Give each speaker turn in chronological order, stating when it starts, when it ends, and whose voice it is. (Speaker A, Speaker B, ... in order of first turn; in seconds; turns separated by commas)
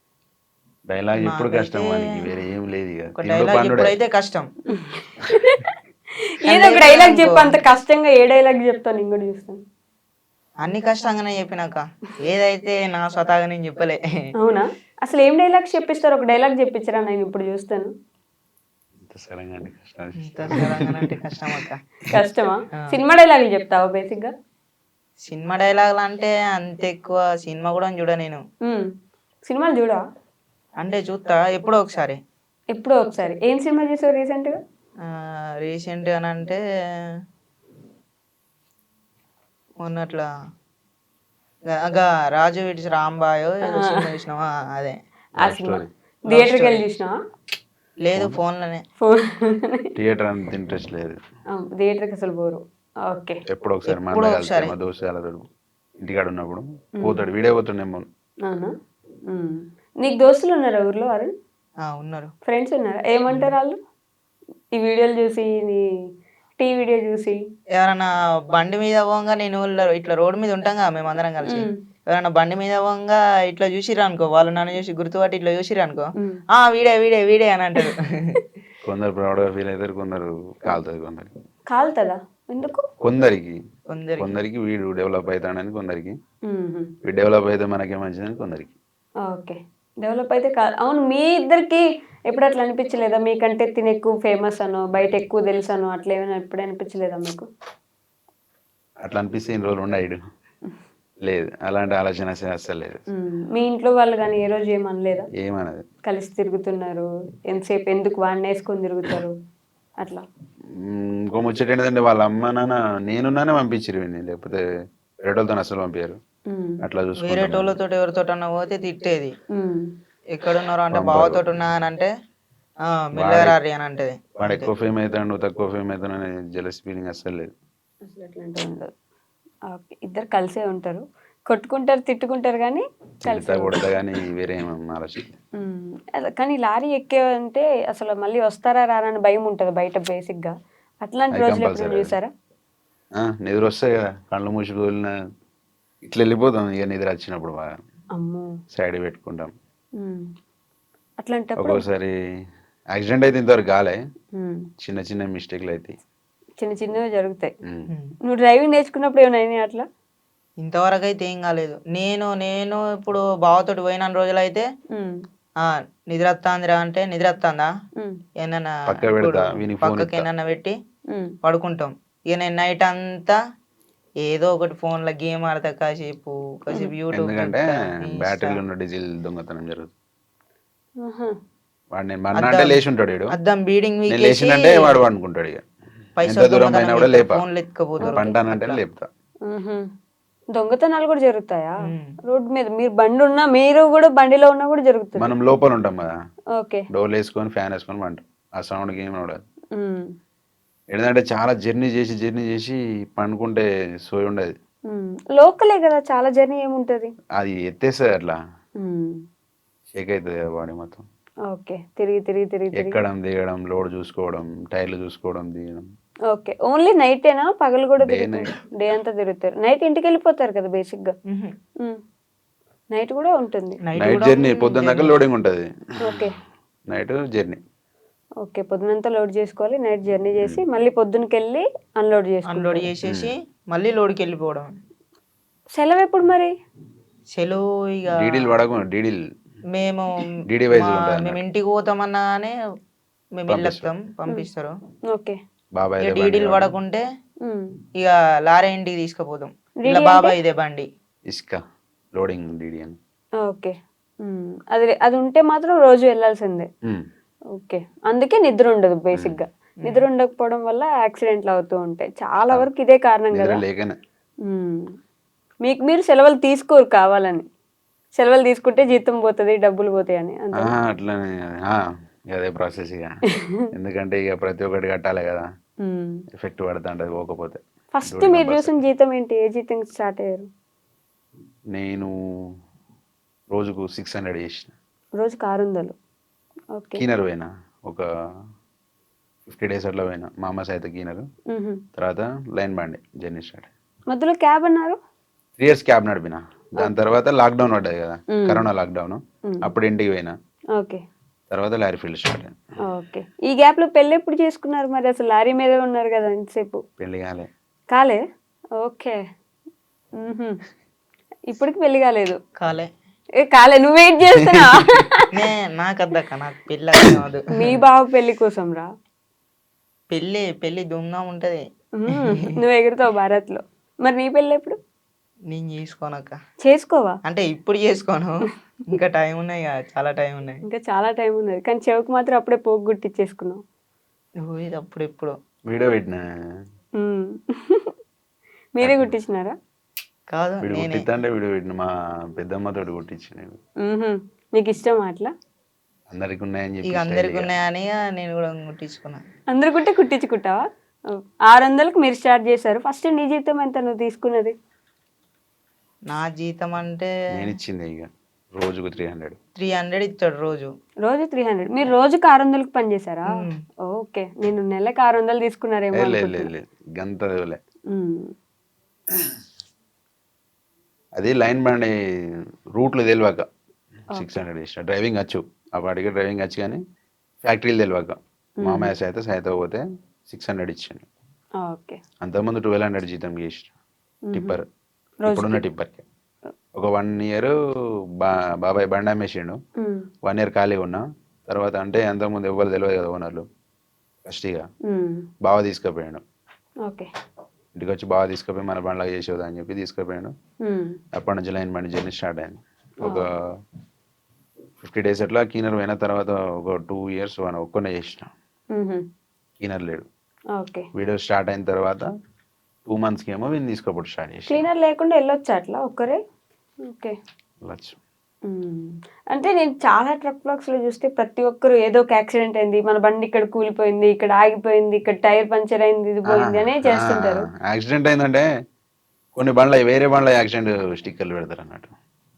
Speaker A: 0.9-3.9, Speaker B: 1.2-2.3, Speaker B: 3.2-4.5, Speaker C: 4.7-5.7, Speaker C: 6.4-9.6, Speaker B: 6.5-7.6, Speaker B: 10.6-14.0, Speaker C: 14.4-17.9, Speaker A: 19.0-21.1, Speaker B: 20.2-21.8, Speaker C: 22.1-24.3, Speaker B: 25.2-28.4, Speaker C: 29.4-30.0, Speaker B: 30.8-32.2, Speaker C: 32.7-34.5, Speaker B: 35.0-36.6, Speaker B: 39.8-40.3, Speaker B: 41.7-45.0, Speaker C: 43.7-44.1, Speaker C: 45.4-47.1, Speaker A: 45.4-45.9, Speaker B: 46.3-46.8, Speaker B: 48.0-48.8, Speaker C: 49.0-49.9, Speaker A: 50.0-51.2, Speaker C: 51.5-53.4, Speaker A: 53.5-55.4, Speaker B: 53.9-54.7, Speaker A: 56.0-58.0, Speaker C: 57.0-57.3, Speaker C: 58.5-58.7, Speaker C: 59.3-61.3, Speaker B: 61.8-62.3, Speaker C: 62.5-63.8, Speaker C: 64.7-65.8, Speaker C: 66.6-67.4, Speaker B: 67.8-78.4, Speaker C: 71.5-71.7, Speaker A: 78.8-81.4, Speaker C: 81.7-82.8, Speaker A: 83.0-83.6, Speaker B: 83.9-84.4, Speaker A: 84.2-86.2, Speaker C: 86.5-86.9, Speaker A: 87.0-88.7, Speaker C: 89.3-97.5, Speaker A: 99.0-100.2, Speaker A: 101.2-103.0, Speaker C: 103.2-105.3, Speaker A: 105.4-105.8, Speaker C: 106.0-109.3, Speaker A: 110.8-114.6, Speaker A: 115.2-116.2, Speaker C: 116.5-116.8, Speaker A: 116.8-117.8, Speaker B: 117.2-119.3, Speaker C: 119.5-119.9, Speaker B: 120.3-122.1, Speaker A: 120.9-121.4, Speaker B: 122.9-124.7, Speaker A: 123.2-123.5, Speaker A: 124.4-127.5, Speaker C: 128.0-128.9, Speaker C: 129.7-133.8, Speaker A: 133.2-135.4, Speaker C: 135.6-142.3, Speaker A: 141.3-142.1, Speaker A: 143.2-145.1, Speaker A: 146.0-147.8, Speaker C: 148.1-148.5, Speaker A: 148.7-149.5, Speaker C: 150.0-150.3, Speaker C: 151.2-151.8, Speaker A: 151.6-152.1, Speaker A: 152.9-154.0, Speaker C: 154.3-154.7, Speaker A: 154.8-155.9, Speaker C: 156.6-157.5, Speaker A: 157.6-157.9, Speaker C: 158.3-159.8, Speaker B: 160.6-164.6, Speaker C: 164.9-165.2, Speaker B: 165.7-167.7, Speaker B: 168.4-170.8, Speaker A: 168.9-170.3, Speaker B: 171.4-173.4, Speaker B: 174.2-178.6, Speaker A: 177.1-179.9, Speaker C: 181.0-181.3, Speaker A: 181.9-183.3, Speaker B: 182.3-182.8, Speaker B: 183.3-185.0, Speaker A: 184.1-185.6, Speaker B: 186.2-188.8, Speaker A: 186.2-187.4, Speaker C: 188.0-188.3, Speaker A: 188.1-189.1, Speaker C: 189.5-189.9, Speaker C: 190.5-195.3, Speaker B: 191.8-192.1, Speaker A: 195.2-196.1, Speaker C: 196.6-196.8, Speaker A: 196.9-199.4, Speaker C: 199.8-200.1, Speaker A: 200.9-204.5, Speaker C: 204.9-207.1, Speaker A: 207.3-208.4, Speaker C: 208.8-209.2, Speaker A: 209.9-211.0, Speaker C: 211.5-213.0, Speaker A: 212.8-215.8, Speaker C: 216.3-221.1, Speaker A: 218.0-218.6, Speaker C: 222.9-223.8, Speaker B: 223.8-225.2, Speaker A: 224.0-226.2, Speaker C: 226.0-226.3, Speaker A: 226.9-227.6, Speaker C: 228.4-232.9, Speaker B: 232.5-234.8, Speaker A: 233.1-233.3, Speaker C: 235.8-236.5, Speaker B: 237.3-238.5, Speaker A: 238.2-239.2, Speaker B: 239.7-242.5, Speaker A: 240.5-241.4, Speaker B: 243.4-244.7, Speaker A: 243.5-243.9, Speaker C: 245.1-245.4, Speaker A: 245.7-246.7, Speaker B: 246.0-247.0, Speaker B: 248.0-250.9, Speaker C: 249.8-250.3, Speaker A: 251.3-251.6, Speaker A: 252.1-253.0, Speaker C: 253.4-256.7, Speaker C: 257.6-263.6, Speaker A: 263.3-264.0, Speaker C: 264.4-264.9, Speaker C: 265.6-267.4, Speaker C: 268.2-270.7, Speaker A: 270.6-275.5, Speaker C: 275.8-276.2, Speaker A: 276.3-278.7, Speaker C: 277.9-280.5, Speaker A: 281.7-282.1, Speaker A: 283.5-284.7, Speaker C: 285.2-285.9, Speaker C: 286.7-287.0, Speaker A: 287.0-288.0, Speaker A: 289.5-291.2, Speaker C: 291.5-291.8, Speaker A: 291.9-293.7, Speaker C: 294.1-295.0, Speaker A: 295.6-300.3, Speaker C: 298.3-298.6, Speaker C: 300.8-301.0, Speaker A: 301.5-302.6, Speaker C: 302.9-306.8, Speaker A: 307.0-307.5, Speaker C: 307.9-308.2, Speaker C: 308.8-309.2, Speaker C: 310.2-310.6, Speaker C: 311.5-312.4, Speaker B: 312.6-312.9, Speaker C: 313.5-315.3, Speaker A: 314.5-314.8, Speaker B: 315.3-317.8, Speaker C: 317.5-318.9, Speaker B: 320.1-322.5, Speaker C: 322.0-324.8, Speaker B: 325.5-326.4, Speaker C: 326.6-327.2, Speaker B: 327.3-328.4, Speaker B: 328.9-330.6, Speaker C: 330.7-333.6, Speaker B: 334.4-335.3, Speaker A: 335.7-336.2, Speaker C: 337.0-337.9, Speaker C: 338.8-339.6, Speaker A: 338.8-339.1, Speaker B: 340.3-341.1, Speaker A: 340.6-343.6, Speaker C: 343.8-345.3, Speaker A: 346.1-347.5, Speaker B: 346.9-349.2, Speaker C: 349.5-350.6, Speaker C: 351.5-354.5, Speaker B: 356.1-357.1, Speaker A: 357.3-359.4, Speaker B: 359.6-360.7, Speaker C: 361.0-363.3, Speaker B: 363.3-363.6, Speaker C: 363.9-366.5, Speaker A: 365.9-367.6, Speaker C: 367.9-368.3, Speaker A: 371.1-371.9, Speaker A: 372.7-373.4, Speaker A: 374.1-376.8, Speaker C: 374.2-374.4, Speaker A: 377.4-381.1, Speaker C: 378.6-378.9, Speaker C: 381.6-382.0, Speaker A: 382.2-383.7, Speaker C: 384.3-384.6, Speaker A: 384.3-384.6, Speaker C: 385.2-385.6, Speaker A: 385.3-386.0, Speaker A: 386.7-387.5, Speaker A: 388.2-389.6, Speaker C: 389.8-390.0, Speaker A: 390.2-393.4, Speaker A: 394.2-394.7, Speaker C: 394.9-395.2, Speaker A: 395.4-396.2, Speaker A: 397.8-400.3, Speaker C: 400.6-401.0, Speaker A: 401.1-403.3, Speaker A: 404.8-408.3, Speaker C: 408.7-409.0, Speaker A: 409.6-410.1, Speaker C: 410.6-410.9, Speaker A: 410.9-412.1, Speaker A: 412.9-414.6, Speaker C: 414.5-416.2, Speaker C: 416.8-417.1, Speaker A: 417.6-418.0, Speaker C: 418.5-427.5, Speaker A: 426.3-428.5, Speaker A: 429.4-431.9